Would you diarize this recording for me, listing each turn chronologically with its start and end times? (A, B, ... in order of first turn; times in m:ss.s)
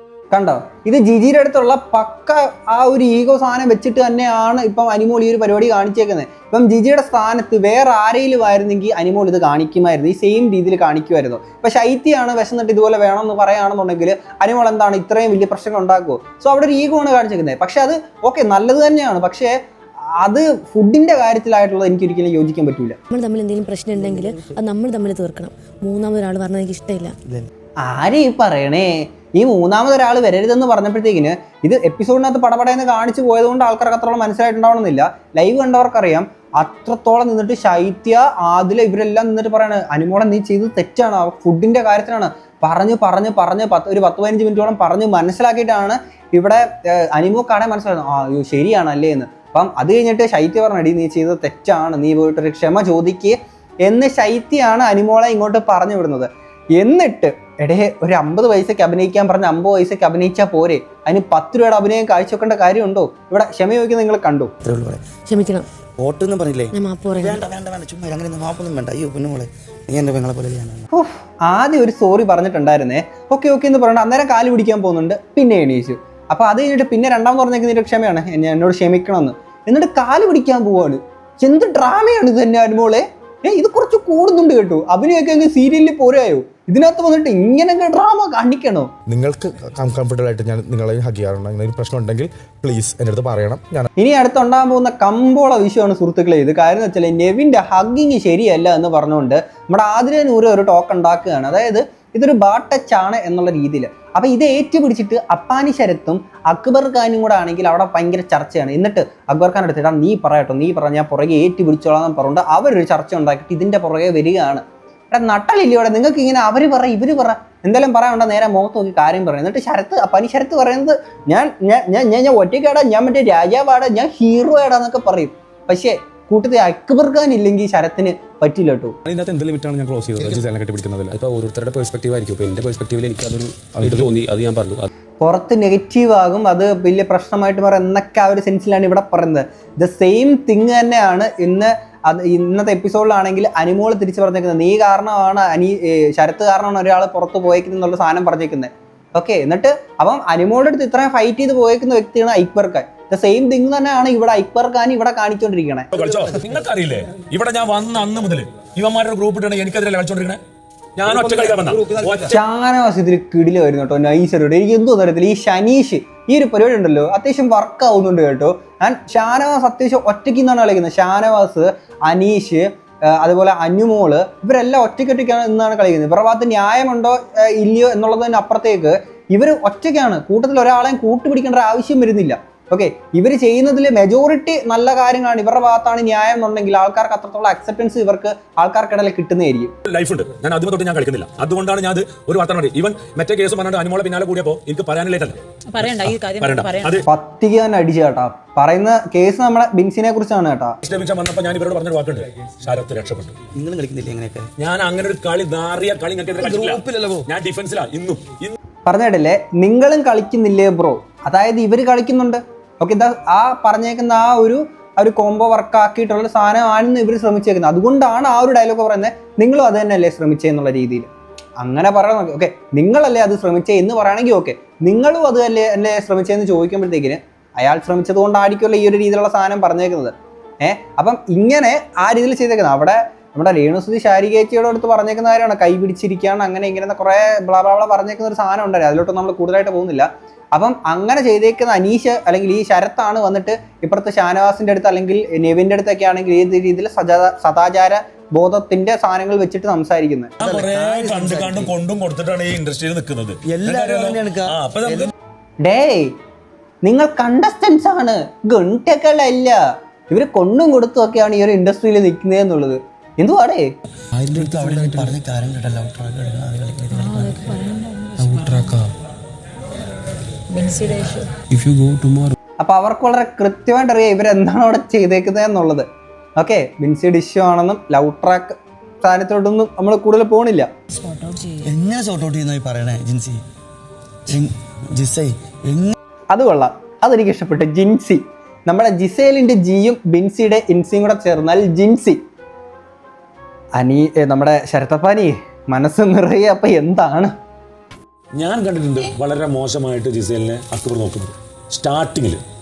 0:00.3-0:19.5 A
0:20.2-0:23.0 A
0:23.1-0:27.1 B
0:23.9-0:24.6 C
0:27.8-1:04.5 A
1:04.6-1:05.0 C
1:05.3-1:05.7 B
1:06.0-1:10.9 C
1:06.7-1:07.4 B
1:10.9-1:28.9 A
1:29.1-1:33.9 D
1:34.0-2:09.0 A
2:09.1-2:09.5 E
2:09.1-2:11.1 D
2:10.1-2:14.9 E
2:15.2-2:35.9 A
2:35.9-2:40.4 E
2:41.0-2:42.4 E
2:42.3-3:09.7 A
3:09.8-3:17.1 E
3:15.8-3:16.9 F
3:17.0-3:20.8 A
3:20.8-3:23.4 E
3:23.5-3:24.5 C
3:24.6-3:28.6 E
3:26.4-3:27.3 C
3:28.9-4:10.3 A
4:10.4-4:15.1 E
4:10.4-4:11.7 C
4:13.5-4:15.1 C
4:15.6-4:16.1 A
4:16.8-4:23.7 A
4:24.2-4:27.5 C
4:26.9-4:28.8 F
4:30.5-4:31.3 F
4:31.5-4:32.3 E
4:32.6-4:35.9 A
4:36.4-4:40.7 A
4:40.9-4:41.7 F
4:41.6-4:43.4 C
4:44.3-4:46.0 C
4:46.3-4:52.2 A
4:53.8-4:57.3 A
4:58.4-5:02.4 E